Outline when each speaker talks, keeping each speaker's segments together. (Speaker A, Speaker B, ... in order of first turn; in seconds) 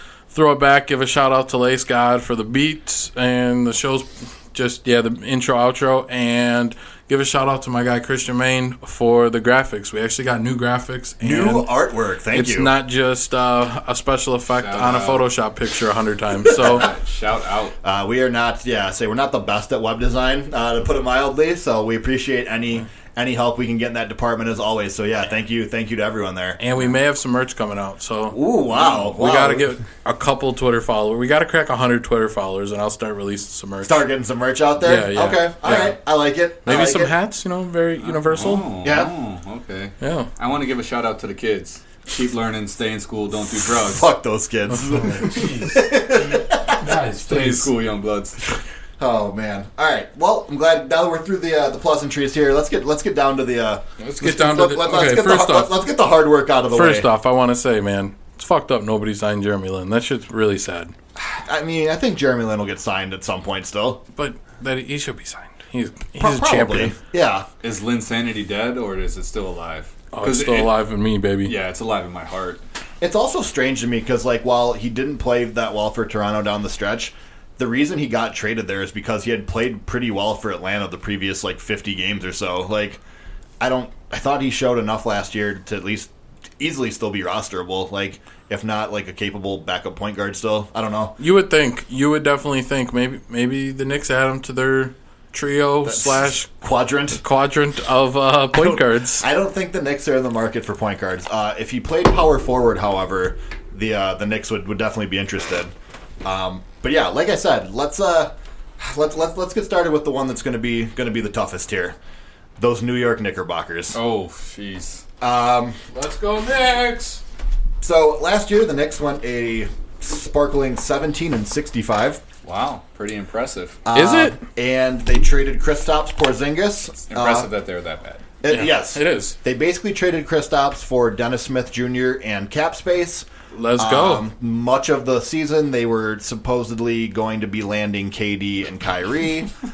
Speaker A: 0.3-11.7, 12.3-16.9, 26.6-28.4, 29.1-34.0, 34.8-36.0, 36.6-38.7, 40.0-40.3, 45.4-45.7, 46.8-47.7, 54.0-55.8, 56.7-60.9, 64.2-66.9, 70.1-71.5, 91.2-96.5, 97.2-99.2, 115.9-117.2, 123.9-124.4, 128.5-129.3, 133.5-134.2
Speaker B: 11.2-12.7, 16.5-16.9, 17.8-26.6, 28.3-29.6, 33.8-37.1, 38.8-39.1, 43.6-46.8, 49.0-57.1, 61.1-64.0, 66.2-67.5, 73.0-83.0, 83.6-91.2, 95.8-97.2, 98.5-105.7, 106.2-112.0, 112.6-114.0, 115.2-115.8, 117.8-122.2, 123.8-127.5, 128.4-139.5
Speaker C: 14.6-15.2, 16.6-17.7, 28.8-29.0, 38.2-44.1, 46.9-48.5, 67.6-70.8, 71.4-72.6, 113.9-115.0, 122.4-123.8, 127.1-128.2